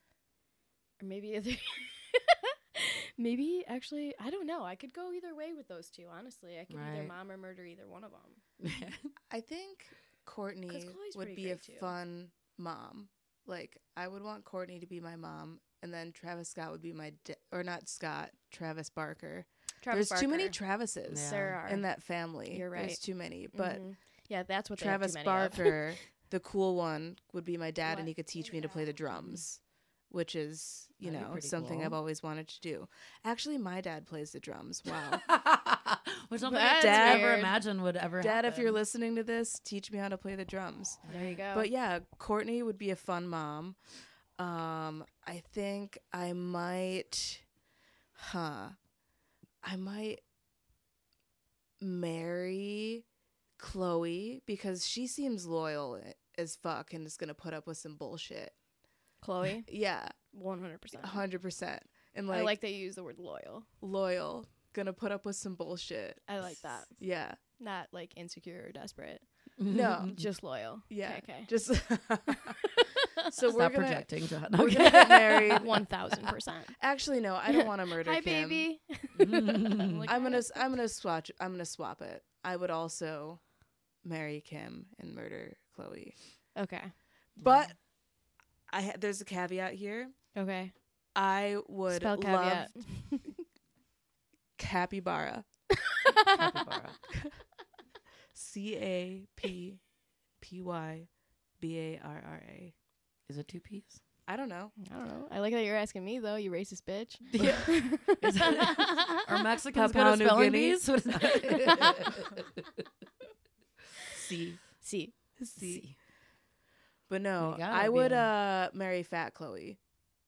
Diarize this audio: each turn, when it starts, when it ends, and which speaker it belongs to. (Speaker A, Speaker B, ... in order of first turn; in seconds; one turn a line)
Speaker A: 1.0-8.4
Speaker B: 6.7-7.1
Speaker B: 8.6-9.1
Speaker C: 9.3-23.8
Speaker A: 10.7-11.9
Speaker A: 19.8-20.6
Speaker B: 21.1-21.6
Speaker A: 21.1-21.9
Speaker A: 22.5-23.0
Speaker A: 23.5-25.9
Speaker C: 24.8-35.2
Speaker A: 27.9-28.8
Speaker B: 31.0-32.0
Speaker B: 35.1-38.8
Speaker A: 36.4-37.5
Speaker C: 36.8-37.5
Speaker C: 38.2-41.0
Speaker B: 41.0-41.4
Speaker A: 41.1-41.7
Speaker C: 41.5-43.8
Speaker C: 44.4-47.4
Speaker C: 48.1-48.8
Speaker C: 49.6-50.2
Speaker C: 51.8-53.0
Speaker C: 53.6-58.5
Speaker A: 59.2-59.7
Speaker C: 59.6-60.1
Speaker A: 60.3-61.2
Speaker C: 61.0-62.5
Speaker A: 62.3-63.7
Speaker C: 63.8-66.2
Speaker A: 66.3-67.0
Speaker C: 67.0-67.4
Speaker A: 67.6-69.2
Speaker B: 69.6-70.2
Speaker C: 69.7-70.2
Speaker A: 70.0-71.5
Speaker C: 70.9-75.8
Speaker B: 73.5-75.8
Speaker A: 75.6-76.8
Speaker C: 76.8-78.7
Speaker A: 77.5-80.7
Speaker B: 79.1-80.1
Speaker C: 80.1-83.4
Speaker C: 84.0-86.2
Speaker A: 86.5-86.9
Speaker C: 87.4-87.8
Speaker C: 88.7-90.1
Speaker A: 90.3-90.7
Speaker C: 91.1-92.9
Speaker A: 91.9-93.4
Speaker C: 94.6-95.4
Speaker A: 96.0-96.5
Speaker B: 96.3-97.0
Speaker C: 98.3-99.8
Speaker C: 100.4-102.7
Speaker B: 103.3-104.0
Speaker C: 104.3-104.7
Speaker A: 104.8-109.2
Speaker B: 107.3-112.9
Speaker C: 109.7-111.0
Speaker A: 111.7-111.9
Speaker C: 114.1-114.6
Speaker A: 114.8-115.1
Speaker C: 115.4-115.8
Speaker B: 115.6-116.0
Speaker C: 117.1-119.8
Speaker B: 117.4-118.3